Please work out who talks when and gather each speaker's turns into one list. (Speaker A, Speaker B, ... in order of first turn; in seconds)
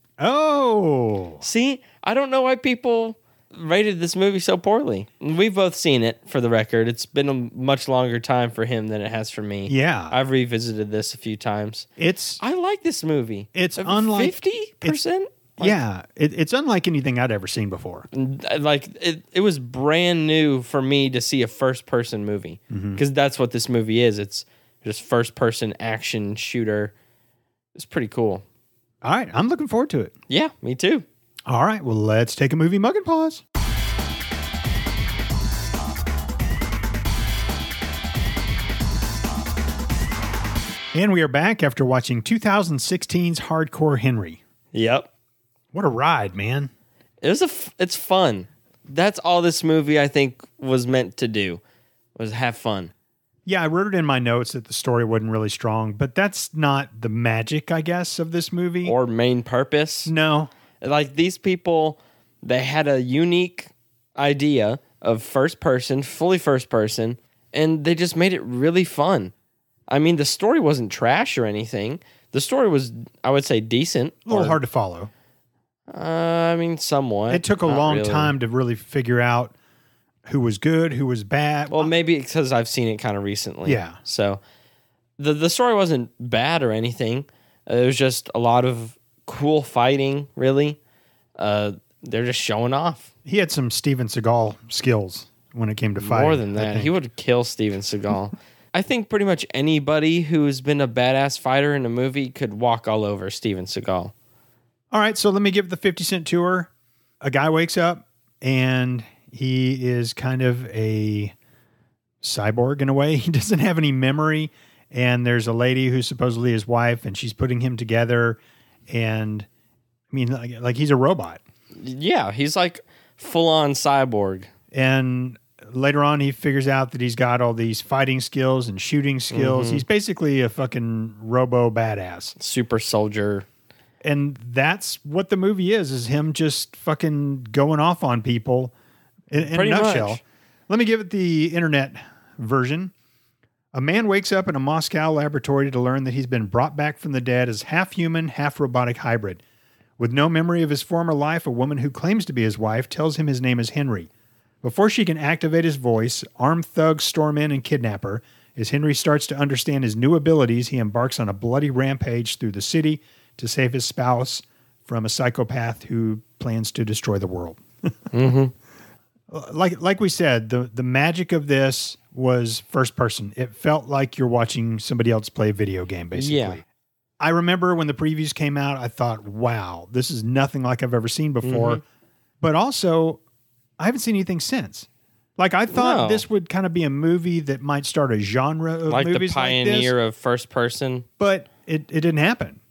Speaker A: 0.2-1.4, 9.7-10.2, 12.0-12.4, 13.5-15.0, 15.6-18.1, 22.7-23.0, 29.0-30.1, 31.5-33.4, 40.9-44.4, 45.7-46.7, 53.5-59.0, 60.1-60.5, 74.2-75.1, 77.3-79.5, 80.2-81.9, 83.6-84.0, 93.2-96.9, 104.9-106.7, 107.2-111.3, 112.2-119.5, 120.1-121.4, 124.7-132.4, 134.0-138.7, 139.3-142.9, 143.7-149.4, 150.0-154.1, 154.6-167.6, 169.3-176.6, 177.2-181.8, 182.4-183.2, 183.8-189.9, 191.2-192.6
Speaker B: 1.4-11.9, 12.4-15.8, 18.1-26.9, 27.8-28.4, 30.3-31.1, 44.7-45.1, 47.2-51.6, 52.1-52.9, 58.9-60.1, 60.8-69.3, 69.9-74.6, 75.9-78.3, 81.7-84.4, 85.2-90.8, 91.4-93.1, 96.0-104.1, 121.8-124.5, 129.3-129.8, 132.4-133.4, 139.4-140.2, 168.1-168.5, 176.1-176.6, 181.4-181.8, 185.7-186.2, 188.9-191.1